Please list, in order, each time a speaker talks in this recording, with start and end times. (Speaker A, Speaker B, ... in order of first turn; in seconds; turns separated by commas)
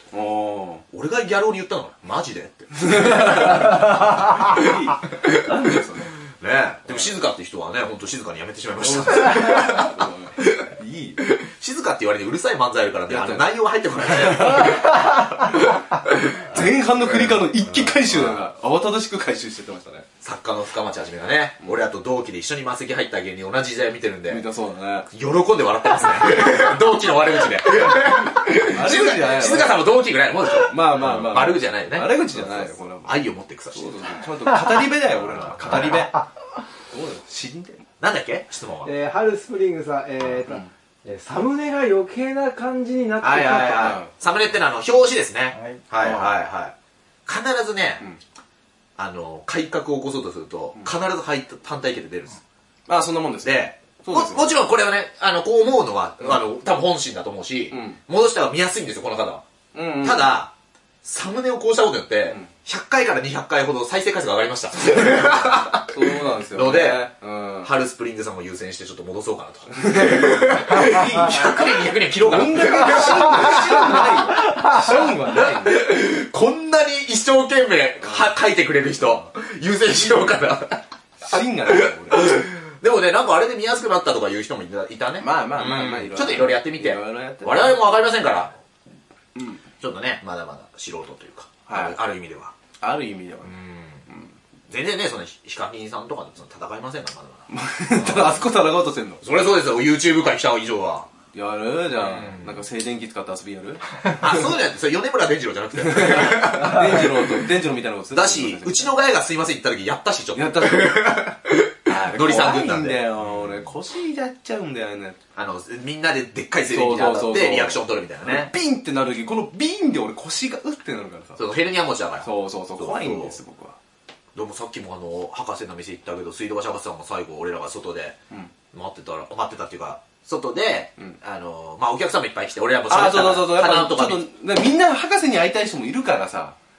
Speaker A: 0.1-0.8, Speaker B: 0.9-5.5, Speaker A: 2.8-6.2, Speaker B: 6.3-18.4, Speaker A: 6.9-7.1, Speaker A: 8.8-11.2, Speaker A: 13.1-20.1, Speaker B: 20.2-24.5, Speaker A: 24.3-25.1, Speaker B: 25.1-34.1, Speaker A: 28.6-29.8, Speaker A: 30.7-33.2, Speaker A: 33.7-36.2, Speaker B: 35.2-36.1, Speaker A: 36.9-37.8, Speaker B: 38.0-38.9, Speaker C: 38.9-44.0, Speaker B: 43.2-46.7, Speaker A: 43.8-44.1, Speaker C: 45.6-45.8, Speaker A: 46.0-46.3, Speaker B: 47.3-48.0, Speaker B: 49.0-52.4, Speaker A: 52.9-54.5, Speaker B: 53.4-59.5, Speaker A: 57.7-58.0, Speaker A: 59.7-60.4, Speaker B: 60.0-67.1, Speaker A: 65.2-67.7, Speaker B: 67.6-88.6, Speaker A: 69.7-75.8, Speaker A: 79.9-80.4, Speaker A: 81.2-82.4, Speaker A: 85.2-87.8, Speaker A: 89.4-89.6, Speaker B: 89.8-92.5, Speaker A: 91.7-92.0, Speaker A: 92.8-94.3, Speaker B: 93.5-94.0, Speaker B: 94.7-98.5, Speaker A: 97.5-99.2, Speaker B: 99.2-101.1, Speaker A: 101.3-104.6, Speaker B: 102.0-102.6, Speaker B: 104.2-107.5, Speaker A: 105.8-108.9, Speaker B: 108.1-113.7, Speaker A: 110.3-111.2, Speaker A: 111.9-115.2, Speaker B: 115.3-118.5, Speaker A: 116.7-121.4, Speaker B: 121.4-123.4, Speaker A: 122.2-123.8, Speaker B: 124.3-128.2, Speaker B: 128.7-134.2, Speaker A: 132.9-136.6